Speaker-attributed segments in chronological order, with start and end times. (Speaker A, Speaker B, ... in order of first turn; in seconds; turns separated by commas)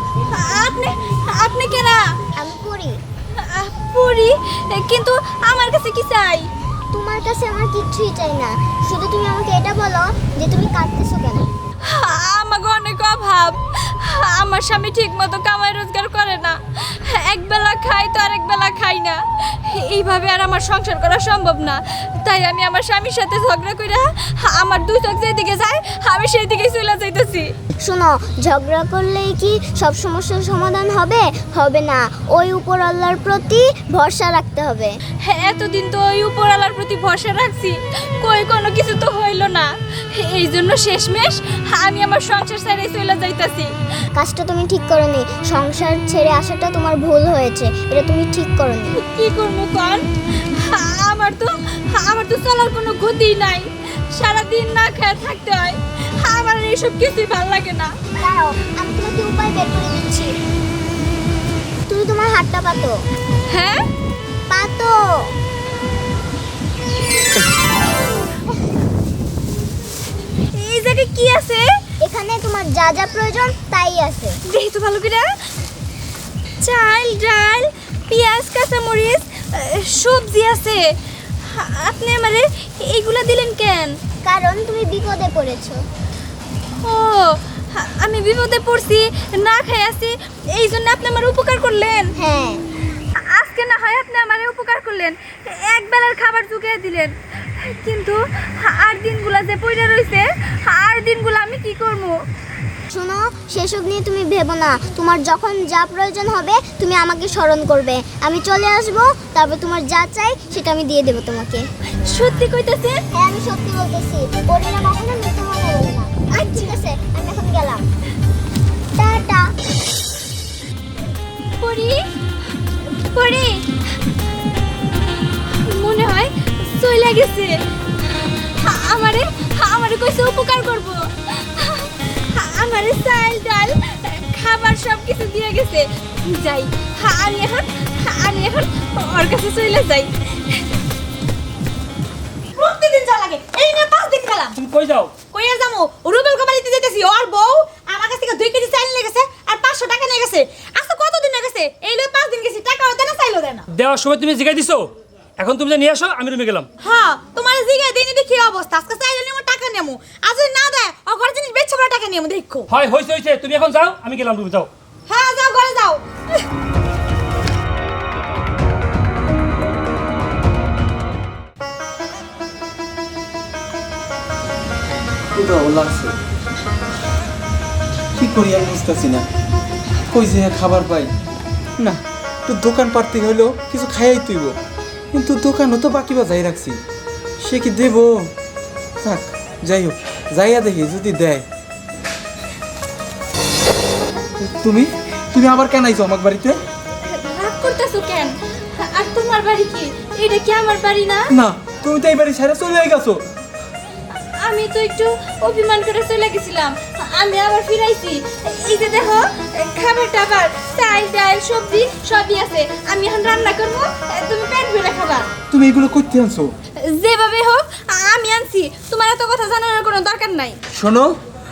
Speaker A: 0.2-2.1, Speaker B: 2.4-3.0, Speaker A: 3.4-6.5, Speaker B: 6.9-11.5, Speaker A: 11.9-27.5, Speaker B: 27.8-35.0, Speaker A: 35.2-43.7, Speaker B: 44.1-49.0, Speaker A: 48.9-50.0, Speaker A: 50.5-57.9, Speaker B: 58.2-60.4, Speaker B: 61.9-63.0, Speaker A: 63.5-63.9, Speaker B: 64.5-65.3, Speaker A: 70.5-71.8, Speaker B: 72.0-74.4, Speaker A: 74.5-75.3, Speaker A: 76.6-80.9, Speaker A: 81.4-83.9, Speaker B: 84.2-85.8, Speaker A: 86.8-92.1, Speaker B: 92.2-92.6, Speaker A: 93.2-102.1, Speaker B: 102.9-111.6, Speaker A: 112.0-113.0, Speaker B: 113.1-117.8, Speaker A: 116.3-116.7, Speaker B: 119.0-119.5, Speaker A: 121.6-122.0, Speaker A: 123.0-123.6, Speaker A: 125.6-127.5, Speaker A: 128.1-140.6, Speaker C: 142.6-144.6, Speaker D: 144.6-145.1, Speaker C: 145.2-153.7, Speaker D: 153.7-156.7, Speaker C: 156.8-162.7, Speaker D: 162.7-164.7, Speaker C: 165.1-166.0, Speaker E: 175.3-176.1, Speaker E: 178.2-179.2, Speaker E: 180.1-181.1, Speaker E: 181.8-184.6, Speaker E: 185.1-186.8, Speaker E: 187.4-188.3, Speaker E: 189.0-191.4, Speaker E: 194.4-196.6, Speaker A: 197.0-201.3, Speaker E: 201.3-203.2, Speaker A: 204.4-215.2, Speaker E: 215.5-216.5, Speaker A: 216.8-220.6, Speaker E: 220.7-221.2